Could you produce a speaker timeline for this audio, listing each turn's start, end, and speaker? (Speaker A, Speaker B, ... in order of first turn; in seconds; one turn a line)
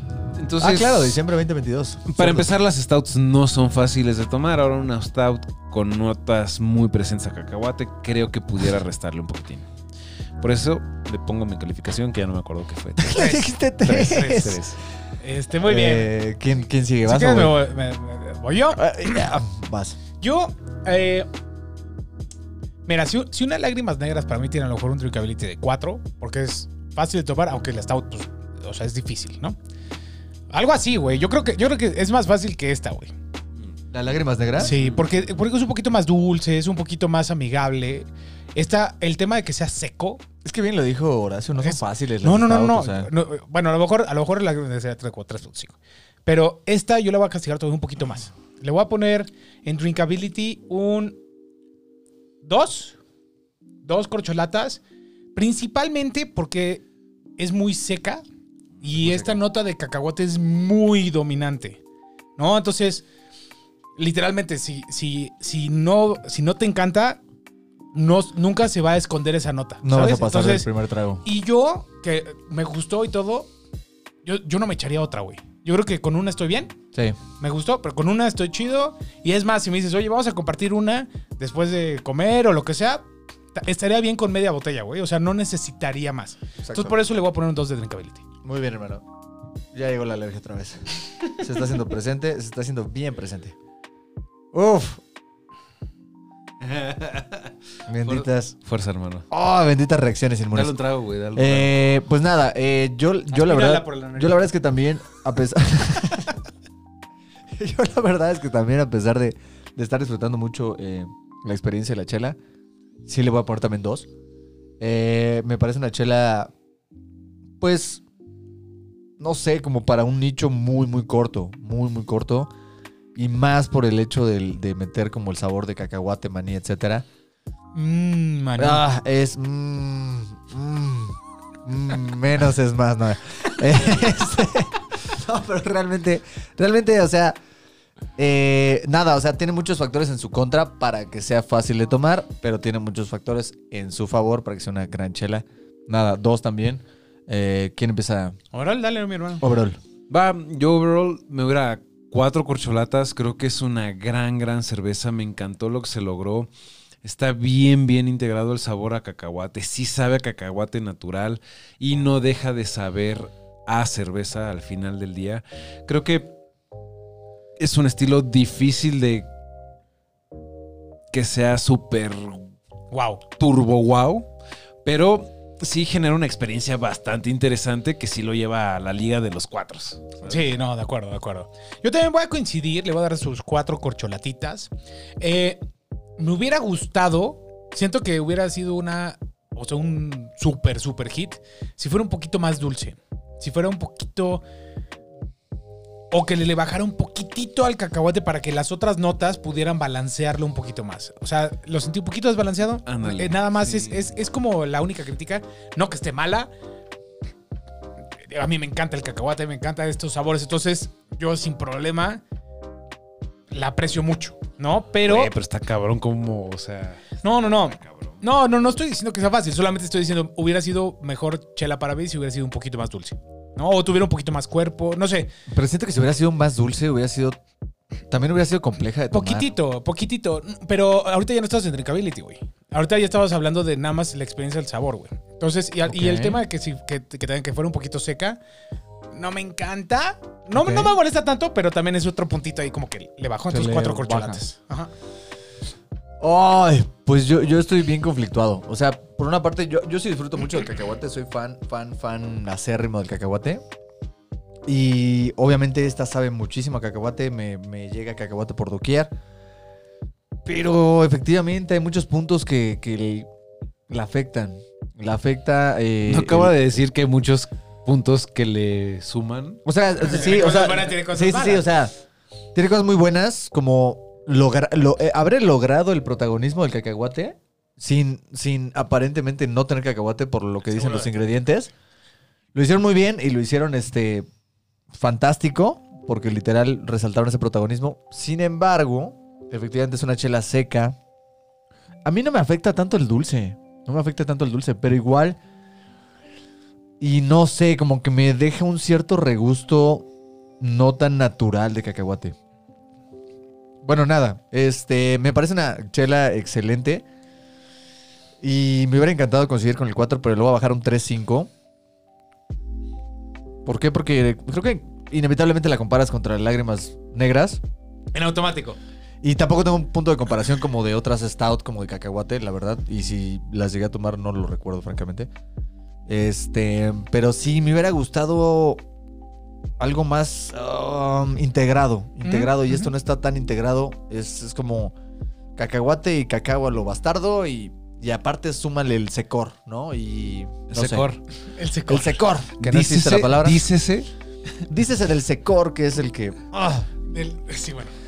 Speaker A: 0.3-1.2
Speaker B: 0.6-2.5
Speaker A: 2.1-9.6
Speaker A: 10.4-14.8
Speaker B: 13.0-14.6
Speaker C: 13.1-14.4
Speaker C: 15.2-16.1
Speaker B: 15.6-17.6
Speaker C: 17.0-19.3
Speaker B: 18.8-20.0
Speaker C: 20.2-21.3
Speaker C: 22.9-29.6
Speaker C: 30.5-33.1
Speaker B: 33.9-34.7
Speaker C: 34.6-40.2
Speaker A: 34.6-35.1
Speaker B: 40.4-43.1
Speaker C: 41.6-51.2
Speaker C: 52.4-53.0
Speaker C: 53.8-54.8
Speaker C: 55.3-56.8
Speaker C: 57.4-58.2
Speaker C: 58.8-61.8
Speaker C: 62.4-63.0
Speaker C: 64.0-67.2
Speaker C: 67.9-70.7
Speaker B: 69.8-71.2
Speaker C: 71.2-73.5
Speaker C: 74.2-76.7
Speaker C: 77.4-88.2
Speaker B: 86.6-87.0
Speaker B: 88.4-89.0
Speaker B: 89.7-93.5
Speaker B: 94.5-95.0
Speaker A: 96.6-97.5
Speaker B: 97.9-98.5
Speaker A: 98.0-99.2
Speaker B: 99.3-100.7
Speaker A: 100.5-101.8
Speaker B: 101.3-106.4
Speaker C: 103.3-104.5
Speaker B: 107.5-112.4
Speaker B: 113.0-114.1
Speaker B: 114.8-116.5
Speaker B: 117.6-118.0
Speaker B: 119.2-122.5
Speaker B: 123.1-127.0
Speaker C: 127.7-128.8
Speaker B: 128.6-137.3
Speaker B: 138.2-148.4
Speaker C: 148.5-149.4
Speaker B: 149.4-149.8
Speaker A: 150.1-156.5
Speaker A: 157.0-166.3
Speaker A: 167.6-169.3
Speaker A: 171.1-172.5
Speaker C: 172.9-173.2
Speaker A: 173.4-174.3
Speaker A: 174.8-180.5
Speaker C: 180.2-185.6
Speaker C: 186.2-194.4
Speaker C: 196.1-206.5
Speaker A: 202.8-204.1
Speaker C: 208.3-212.2
Speaker C: 213.5-215.3
Speaker A: 215.0-217.2
Speaker C: 217.2-225.3
Speaker A: 217.7-218.2
Speaker B: 225.5-227.4
Speaker B: 228.1-229.5
Speaker C: 229.1-238.4
Speaker B: 235.9-236.4
Speaker C: 239.1-244.9
Speaker B: 240.5-240.9
Speaker B: 243.5-244.4
Speaker B: 246.2-253.6
Speaker B: 254.7-259.1
Speaker B: 260.4-263.3
Speaker B: 263.9-266.5
Speaker A: 266.1-269.6
Speaker B: 269.6-271.9
Speaker C: 270.0-271.6
Speaker B: 272.5-281.7
Speaker C: 280.7-281.1
Speaker B: 282.5-284.3
Speaker B: 284.9-290.9
Speaker B: 292.0-295.4
Speaker B: 297.0-300.1
Speaker B: 300.6-302.4
Speaker B: 303.8-307.0
Speaker B: 308.4-311.5
Speaker B: 313.6-317.6
Speaker C: 318.1-318.8
Speaker B: 319.2-325.3
Speaker B: 326.1-328.8
Speaker B: 329.8-334.9
Speaker C: 332.2-332.9
Speaker B: 335.6-341.1
Speaker A: 340.7-341.2
Speaker C: 341.5-342.2
Speaker B: 341.9-343.7
Speaker A: 342.6-344.1
Speaker B: 344.7-346.4
Speaker C: 346.5-347.9